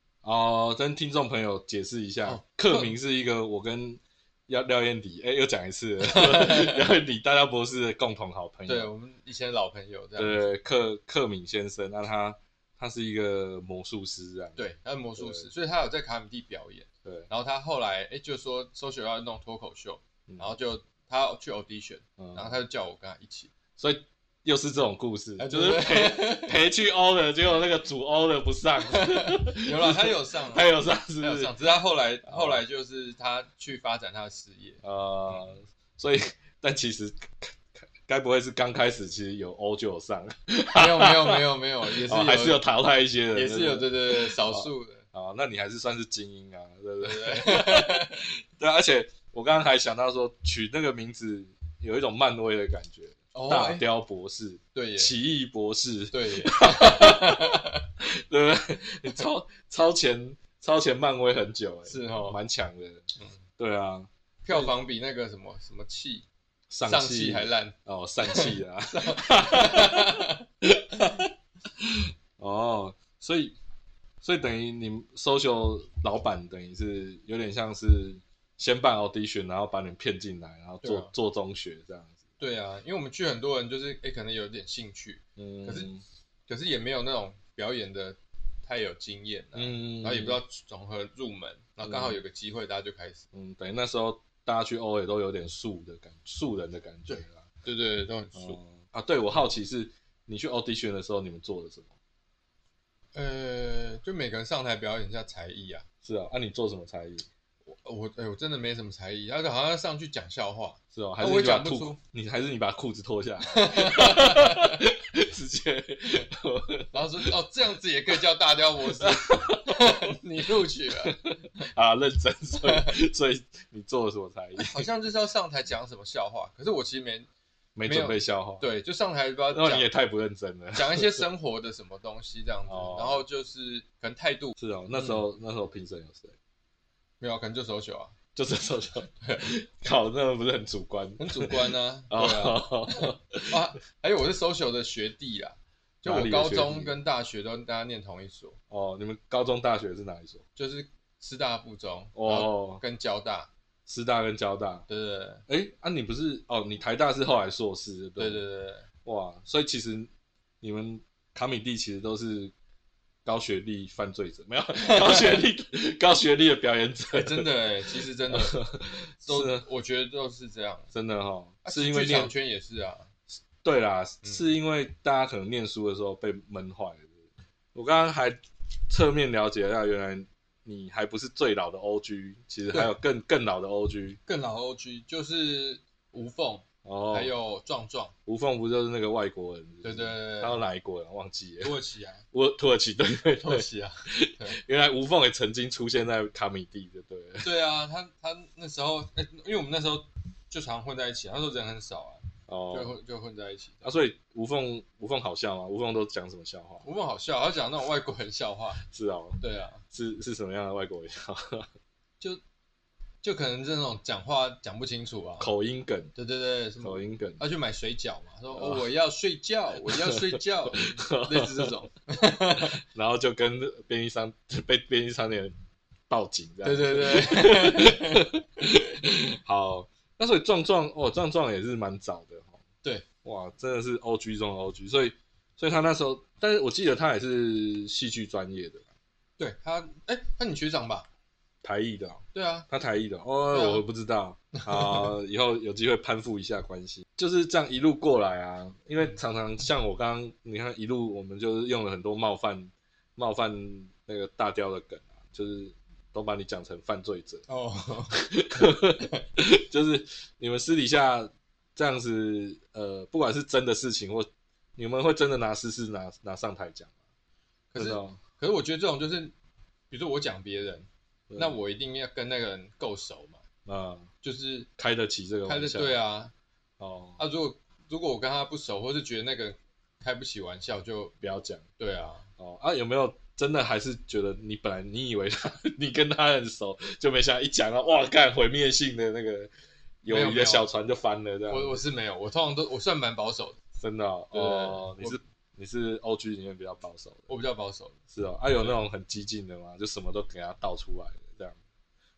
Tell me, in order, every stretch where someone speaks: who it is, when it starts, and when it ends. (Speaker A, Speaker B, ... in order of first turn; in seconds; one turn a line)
Speaker A: 0.2-8.9
Speaker B: 2.2-2.9
Speaker B: 6.0-6.8
Speaker B: 8.7-10.5
Speaker A: 10.2-15.5
Speaker B: 14.6-23.5
Speaker A: 22.2-22.6
Speaker A: 23.8-31.6
Speaker B: 25.4-26.6
Speaker B: 28.8-35.5
Speaker A: 32.2-32.6
Speaker A: 34.8-41.4
Speaker B: 40.7-42.6
Speaker A: 42.0-63.0
Speaker B: 43.3-45.0
Speaker B: 47.0-48.2
Speaker B: 53.3-53.9
Speaker B: 54.7-55.1
Speaker B: 56.1-57.8
Speaker B: 61.9-62.4
Speaker A: 63.6-64.7
Speaker B: 64.4-66.2
Speaker A: 66.7-70.2
Speaker B: 66.8-70.4
Speaker A: 70.9-71.2
Speaker A: 71.8-73.5
Speaker A: 74.2-82.2
Speaker B: 80.8-81.1
Speaker B: 82.4-85.9
Speaker A: 85.4-86.0
Speaker B: 86.5-93.2
Speaker A: 89.5-90.4
Speaker A: 91.8-92.2
Speaker A: 93.3-97.4
Speaker B: 97.1-98.6
Speaker A: 98.3-101.9
Speaker B: 103.1-105.8
Speaker A: 106.0-107.2
Speaker B: 107.7-112.0
Speaker A: 110.9-117.3
Speaker B: 113.5-114.8
Speaker B: 116.9-121.3
Speaker A: 119.0-119.9
Speaker A: 121.0-124.9
Speaker B: 122.6-122.9
Speaker B: 124.6-127.3
Speaker A: 127.8-128.7
Speaker B: 127.8-129.9
Speaker A: 129.5-131.2
Speaker B: 130.7-135.2
Speaker A: 132.7-133.2
Speaker A: 134.6-136.3
Speaker B: 137.2-138.1
Speaker A: 138.3-143.6
Speaker B: 139.2-139.5
Speaker B: 141.2-142.6
Speaker B: 143.5-148.6
Speaker A: 146.0-146.9
Speaker A: 148.7-150.4
Speaker B: 150.6-153.5
Speaker A: 152.1-152.8
Speaker A: 153.9-154.8
Speaker B: 154.9-155.4
Speaker A: 155.5-158.4
Speaker B: 158.2-158.8
Speaker A: 159.0-160.1
Speaker A: 160.6-162.5
Speaker A: 163.2-169.7
Speaker B: 167.1-168.6
Speaker B: 169.2-170.9
Speaker A: 170.9-172.3
Speaker B: 171.6-173.1
Speaker A: 173.6-177.1
Speaker B: 174.2-174.5
Speaker A: 177.7-184.2
Speaker B: 184.2-188.1
Speaker A: 186.8-187.3
Speaker A: 188.2-191.8
Speaker B: 189.8-190.6
Speaker B: 191.6-192.2
Speaker A: 192.3-197.5
Speaker B: 193.4-194.6
Speaker B: 197.4-203.9
Speaker A: 202.5-202.9
Speaker A: 203.8-206.8
Speaker B: 206.8-208.8
Speaker A: 208.8-211.7
Speaker B: 209.4-209.8
Speaker B: 213.2-215.5
Speaker A: 215.4-216.1
Speaker B: 216.1-222.7
Speaker A: 216.8-217.4
Speaker A: 218.5-218.9
Speaker A: 219.9-221.7
Speaker A: 222.9-225.5
Speaker A: 226.1-232.6
Speaker B: 226.6-228.3
Speaker A: 233.2-238.9
Speaker B: 239.4-241.1
Speaker A: 241.6-257.5
Speaker B: 242.3-242.7
Speaker B: 243.5-243.8
Speaker B: 244.5-245.1
Speaker B: 257.5-258.2
Speaker A: 258.1-266.9
Speaker B: 267.7-269.3
Speaker A: 267.7-268.2
Speaker B: 269.9-273.4
Speaker A: 271.3-271.6
Speaker A: 273.6-274.1
Speaker B: 274.2-274.7
Speaker A: 274.8-276.0
Speaker B: 275.4-276.3
Speaker A: 276.8-277.2
Speaker B: 277.2-281.1
Speaker A: 281.2-281.6
Speaker B: 281.8-282.3
Speaker A: 282.4-289.5
Speaker A: 290.0-291.8
Speaker B: 290.1-290.7
Speaker B: 291.5-293.6
Speaker A: 293.8-297.3
Speaker B: 294.3-295.2
Speaker B: 297.3-297.9
Speaker A: 298.1-301.6
Speaker B: 298.5-298.8